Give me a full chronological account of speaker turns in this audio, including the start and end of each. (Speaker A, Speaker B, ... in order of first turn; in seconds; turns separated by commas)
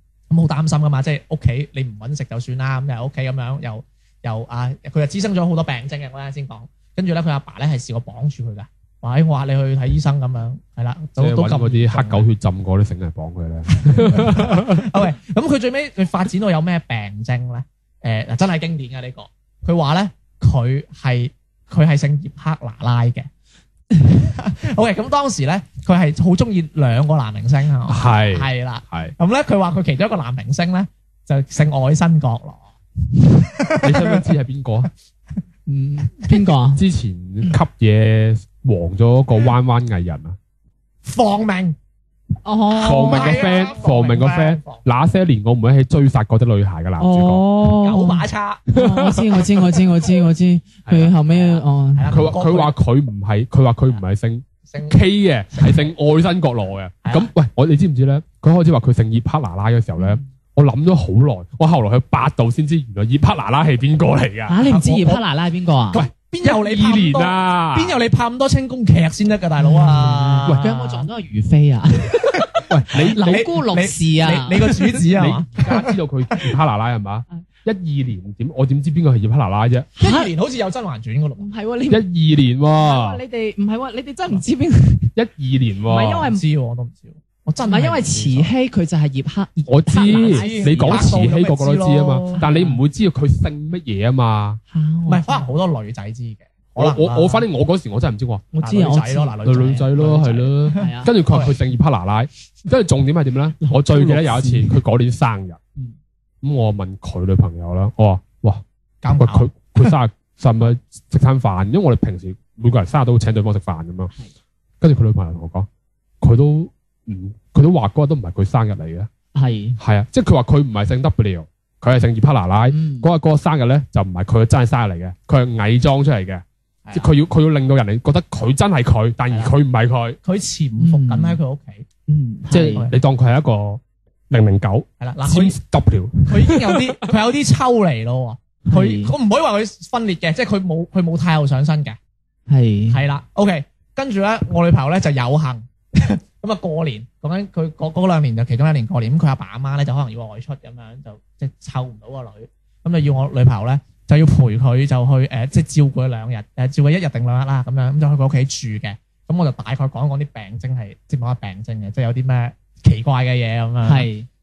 Speaker A: 0.3-12.3, Speaker B: 11.2-15.0, Speaker A: 13.7-23.3, Speaker A: 24.0-32.6, Speaker B: 27.9-29.1, Speaker A: 33.2-34.3, Speaker B: 33.8-34.9, Speaker C: 35.7-36.8, Speaker B: 36.7-40.4, Speaker A: 41.0-41.8, Speaker C: 42.4-43.5, Speaker A: 42.7-44.8, Speaker B: 42.8-47.4, Speaker C: 47.0-52.1, Speaker A: 47.7-48.6, Speaker B: 48.7-49.3, Speaker B: 50.9-51.1, Speaker A: 51.1-52.7, Speaker B: 52.1-64.6, Speaker A: 54.7-55.0, Speaker A: 55.5-55.9, Speaker A: 57.0-57.3, Speaker C: 64.5-66.0, Speaker A: 64.7-65.2, Speaker A: 65.9-71.1, Speaker B: 65.9-68.0, Speaker C: 69.6-75.0, Speaker A: 72.3-76.5, Speaker B: 72.7-73.4, Speaker B: 75.1-79.9, Speaker A: 80.0-81.5, Speaker C: 80.0-80.3, Speaker C: 81.4-82.0, Speaker B: 81.9-83.2, Speaker C: 82.7-85.1, Speaker B: 85.1-86.3, Speaker C: 85.9-86.4, Speaker A: 86.2-88.5, Speaker C: 87.6-91.1, Speaker B: 89.7-94.6, Speaker A: 90.1-92.4, Speaker C: 92.3-92.8, Speaker C: 94.7-95.5, Speaker A: 95.1-97.5, Speaker B: 96.8-98.5, Speaker C: 98.5-99.4, Speaker A: 98.6-101.5, Speaker B: 99.4-105.6, Speaker C: 100.8-101.1, Speaker C: 103.6-104.8, Speaker B: 106.4-108.6, Speaker A: 109.0-109.9, Speaker B: 109.2-114.1, Speaker B: 114.8-115.7, Speaker B: 116.2-119.1, Speaker C: 119.3-119.8, Speaker B: 119.8-130.2, Speaker C: 122.7-123.1, Speaker A: 126.9-127.1, Speaker A: 129.3-129.5, Speaker A: 130.2-131.9, Speaker C: 130.8-131.4, Speaker C: 132.1-132.9, Speaker B: 132.5-137.0, Speaker A: 135.0-135.6, Speaker A: 136.3-142.0, Speaker C: 138.7-139.1, Speaker C: 142.5-143.0, Speaker A: 142.9-164.1, Speaker C: 163.8-164.3